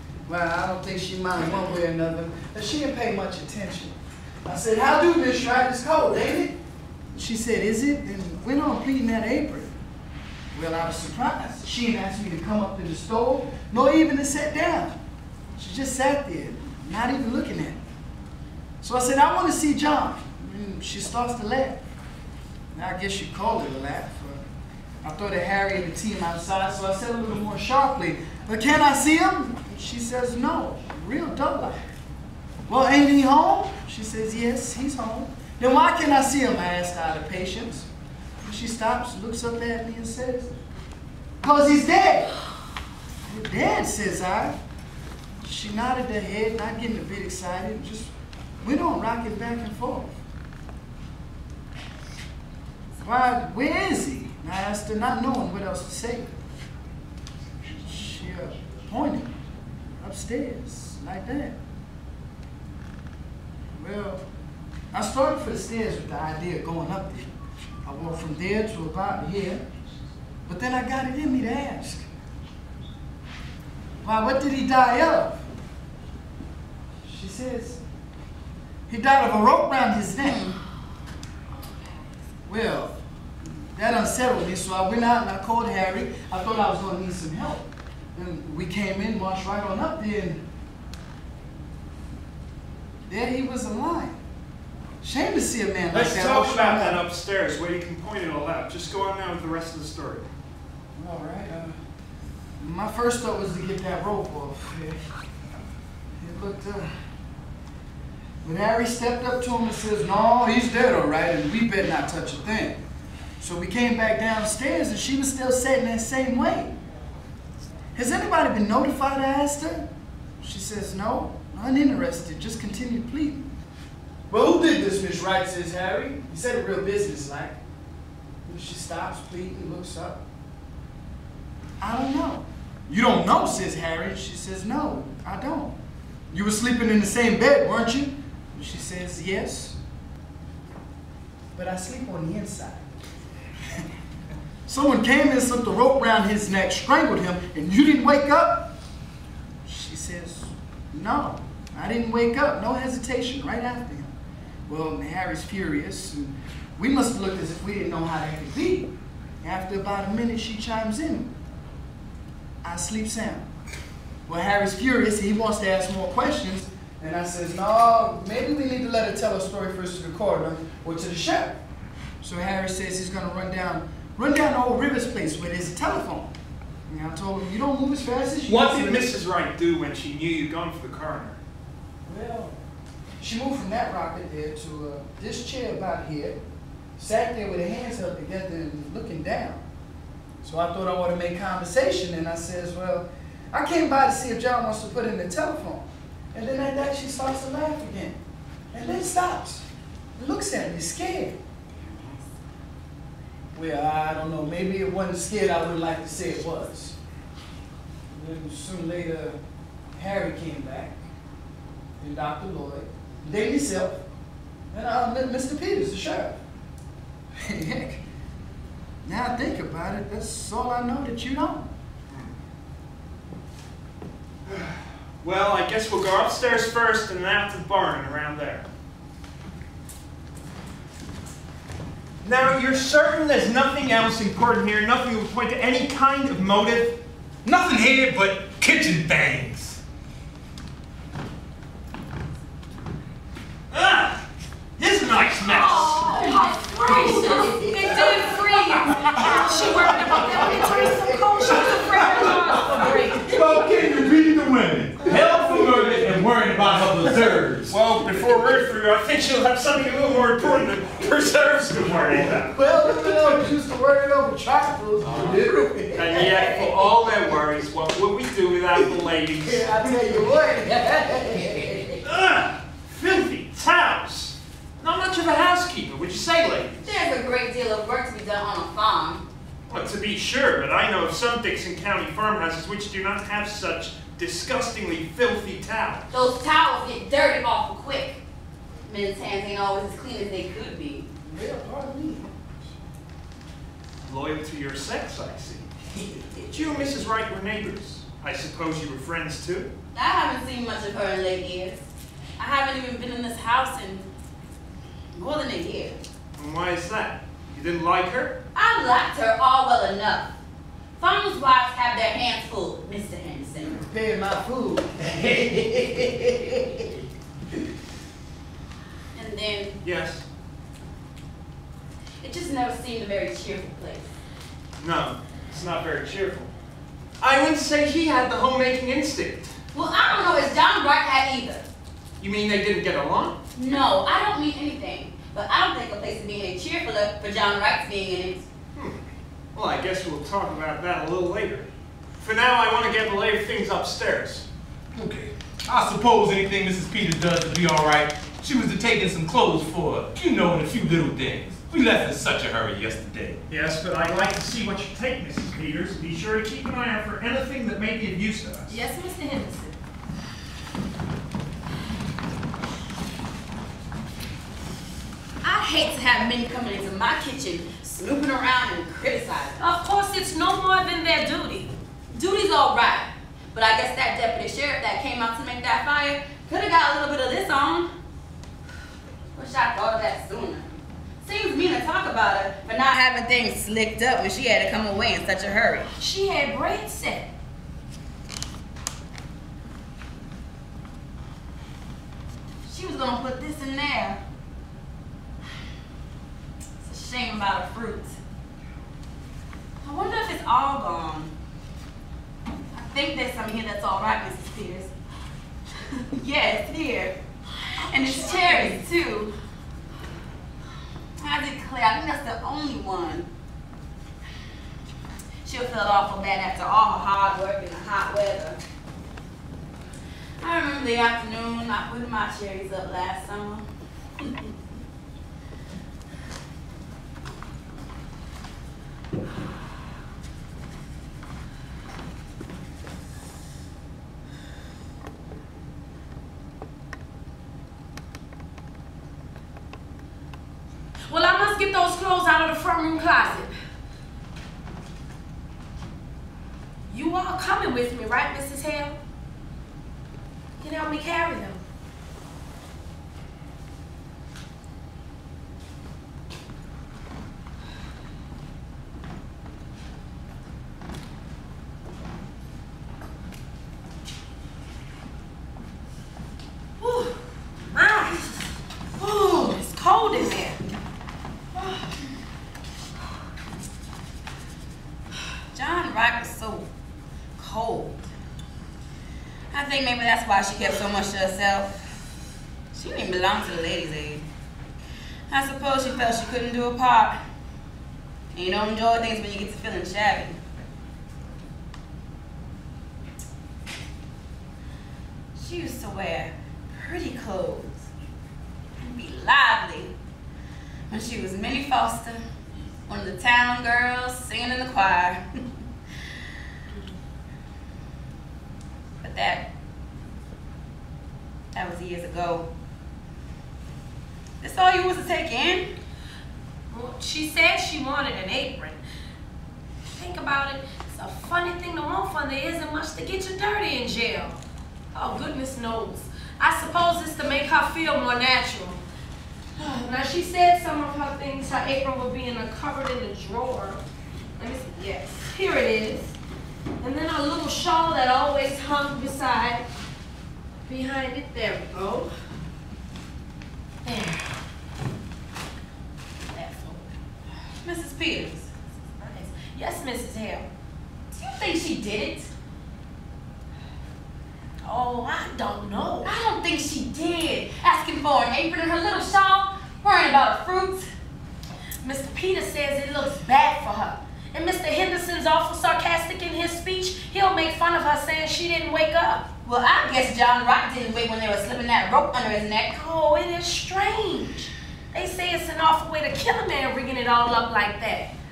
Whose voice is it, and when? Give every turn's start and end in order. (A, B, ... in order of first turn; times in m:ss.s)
0:00.3-0:06.6 A
0:07.1-0:09.8 A
0:10.5-0:15.0 A
0:15.6-0:17.8 A
0:18.8-0:21.8 A
0:22.7-0:24.4 A
0:25.0-0:31.9 A
0:32.7-0:37.9 A
0:38.4-0:40.5 A
0:41.4-0:42.3 A
0:43.3-0:44.6 A
0:45.4-0:48.1 A
0:48.6-0:50.2 A
0:53.0-0:56.4 A
0:57.7-0:59.3 A
1:00.0-1:01.6 A
1:03.7-1:04.2 A
1:04.9-1:09.6 A
1:10.5-1:12.1 A
1:14.0-1:15.4 A
1:17.0-1:17.8 A
1:18.9-1:20.5 A
1:20.2-1:20.6 B
1:22.5-1:30.4 A
1:33.1-1:34.2 A
1:35.0-1:37.0 A
1:35.9-1:40.3 C
1:41.0-1:41.8 A
1:42.6-1:45.0 A
1:46.2-1:46.9 A
1:48.4-1:52.8 A
1:53.4-1:56.8 A
1:58.0-1:59.9 A
2:00.4-2:03.5 A
2:04.3-2:07.6 A
2:08.4-2:10.2 A
2:11.8-2:15.8 A
2:16.3-2:19.8 A
2:21.6-2:22.9 A
2:24.7-2:28.8 A
2:29.6-2:34.1 A
2:34.7-2:41.3 A
2:42.6-2:43.5 A
2:44.3-2:51.6 A
2:52.2-2:56.3 A
2:56.9-2:59.1 A
2:58.5-3:01.4 C
3:02.0-3:02.6 A
3:03.2-3:06.4 A
3:07.0-3:09.6 A
3:10.4-3:18.2 A
3:18.7-3:19.6 A
3:20.2-3:21.4 A
3:21.8-3:22.2 B
3:23.5-3:27.0 A
3:28.1-3:29.4 A
3:30.0-3:31.0 A
3:32.0-3:34.0 A
3:34.7-3:36.4 A
3:37.4-3:38.0 A
3:39.0-3:41.7 A
3:44.4-3:48.7 C
3:52.2-3:57.0 C
3:57.4-3:59.8 D
4:03.7-4:04.2 C
4:04.8-4:06.1 C
4:05.5-4:13.6 E
4:05.6-4:08.3 B
4:06.9-4:08.2 A
4:08.9-4:10.4 D
4:10.3-4:11.4 A
4:12.0-4:17.8 D
4:15.1-4:16.0 A
4:17.7-4:23.3 C
4:22.5-4:27.0 A
4:25.1-4:25.4 D
4:25.9-4:29.7 C
4:28.8-4:32.0 A
4:32.0-4:36.8 C
4:36.8-4:39.2 B
4:39.7-4:46.2 C
4:46.1-4:48.2 B
4:48.8-4:51.1 B
4:51.2-4:52.3 A
4:54.0-4:55.7 C
4:56.5-4:59.7 C
4:59.9-5:01.8 B
5:02.4-5:04.1 B
5:05.1-5:06.0 B
5:06.4-5:08.4 C
5:08.6-5:10.3 B
5:11.0-5:13.8 B
5:13.6-5:16.9 A
5:19.1-5:19.8 B
5:19.8-5:20.2 C
5:22.2-5:24.1 B
5:24.8-5:26.5 C
5:27.2-5:29.5 C
5:29.7-5:31.7 B
5:32.2-5:33.4 C
5:33.6-5:38.5 B
5:38.8-5:39.0 C
5:39.5-5:41.7 C
5:42.2-5:44.4 C
5:44.9-5:53.4 D
5:53.5-5:58.7 C
5:58.7-5:59.8 E
6:05.4-6:09.6 B
6:09.6-6:11.7 E
6:12.1-6:17.9 B
6:19.4-6:25.9 B
6:26.0-6:27.3 E
6:32.7-6:34.2 B
6:36.8-6:38.2 B
6:39.8-6:41.3 B
6:42.7-6:44.9 B
6:46.1-6:47.2 B
6:47.7-6:48.8 E
6:47.8-6:49.3 B
6:51.2-6:53.3 B
6:55.4-6:58.6 B
7:00.4-7:03.7 B
7:04.2-7:04.5 B
7:21.1-7:23.5 E
7:26.9-7:29.0 E
7:30.6-7:31.6 E
7:46.8-7:47.2 E
7:47.7-7:48.3 E
7:49.0-7:50.6 E
7:55.5-7:56.7 B
7:57.4-7:58.1 B
7:59.5-8:02.0 B
8:02.7-8:04.3 B
8:05.3-8:07.2 B
8:08.3-8:10.4 B
8:15.4-8:17.9 B
8:18.8-8:19.9 B
8:20.9-8:22.2 B
8:22.9-8:25.2 B
8:29.0-8:29.5 B
8:31.5-8:32.5 B
8:34.4-8:35.7 B
8:36.7-8:38.8 E
8:40.0-8:44.4 E
8:44.9-8:48.8 E
8:49.6-8:53.8 E
8:54.4-8:56.2 E
8:56.8-8:59.6 E
9:00.7-9:02.1 E
9:03.8-9:04.3 E
9:06.3-9:06.9 E
9:07.6-9:08.5 B
9:09.0-9:10.5 E
9:11.1-9:12.3 B
9:14.6-9:16.1 E
9:16.0-9:20.9 B
9:21.8-9:29.3 E
9:29.4-9:33.0 B
9:33.0-9:38.1 E